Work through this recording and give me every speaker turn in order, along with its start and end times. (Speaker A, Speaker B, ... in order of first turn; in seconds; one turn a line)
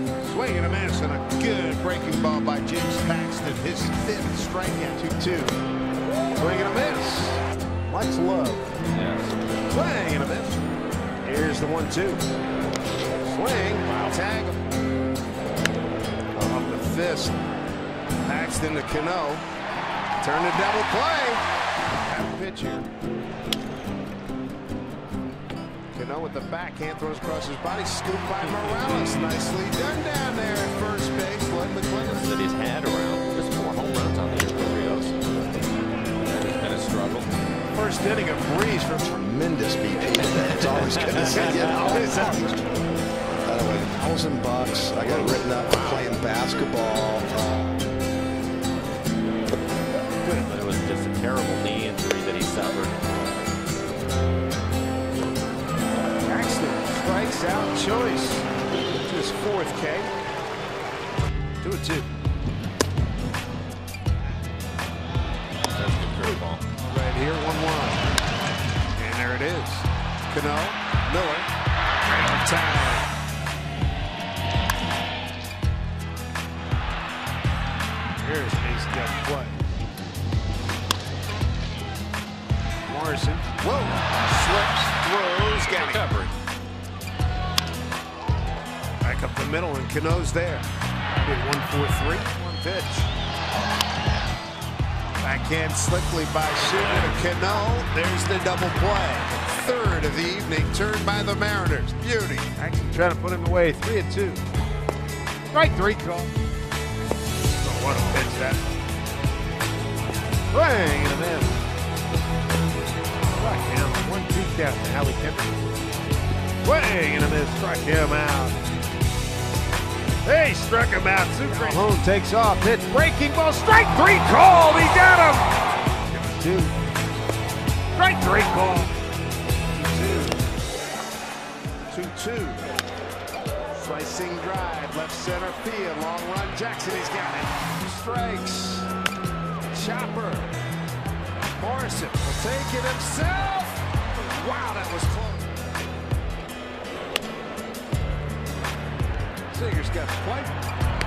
Speaker A: 0.2-5.6
Speaker A: 6.3-8.7
Speaker B: 8.9-9.3
Speaker A: 9.7-10.7
Speaker A: 11.2-12.3
Speaker A: 13.2-14.6
Speaker B: 13.8-14.2
Speaker A: 16.4-17.4
Speaker A: 18.2-19.5
Speaker A: 20.2-21.4
Speaker A: 22.0-22.9
Speaker A: 25.9-32.3
Speaker B: 28.4-28.9
Speaker B: 32.0-35.2
Speaker B: 36.2-37.3
Speaker A: 37.7-39.2
Speaker C: 39.1-42.6
Speaker A: 40.6-42.6
Speaker B: 41.0-41.5
Speaker C: 43.5-47.4
Speaker B: 45.0-46.1
Speaker B: 50.5-52.9
Speaker A: 56.2-58.5
Speaker A: 59.1-60.1
Speaker A: 61.6-62.1
Speaker B: 65.7-66.6
Speaker A: 66.2-68.1
Speaker A: 69.0-71.5
Speaker A: 72.1-73.1
Speaker A: 78.2-79.6
Speaker A: 82.9-86.1
Speaker B: 85.7-86.3
Speaker A: 89.0-90.7
Speaker A: 91.2-93.1
Speaker A: 95.2-104.4
Speaker B: 96.6-97.7
Speaker A: 105.5-106.3
Speaker A: 107.6-108.6
Speaker A: 110.5-111.6
Speaker A: 113.4-115.6
Speaker A: 116.6-118.6
Speaker A: 120.2-126.8
Speaker B: 121.5-121.9
Speaker A: 128.0-128.9
Speaker A: 129.8-130.4
Speaker A: 131.9-132.7
Speaker A: 133.7-138.9
Speaker A: 139.7-140.5
Speaker A: 141.6-145.5
Speaker A: 149.5-150.6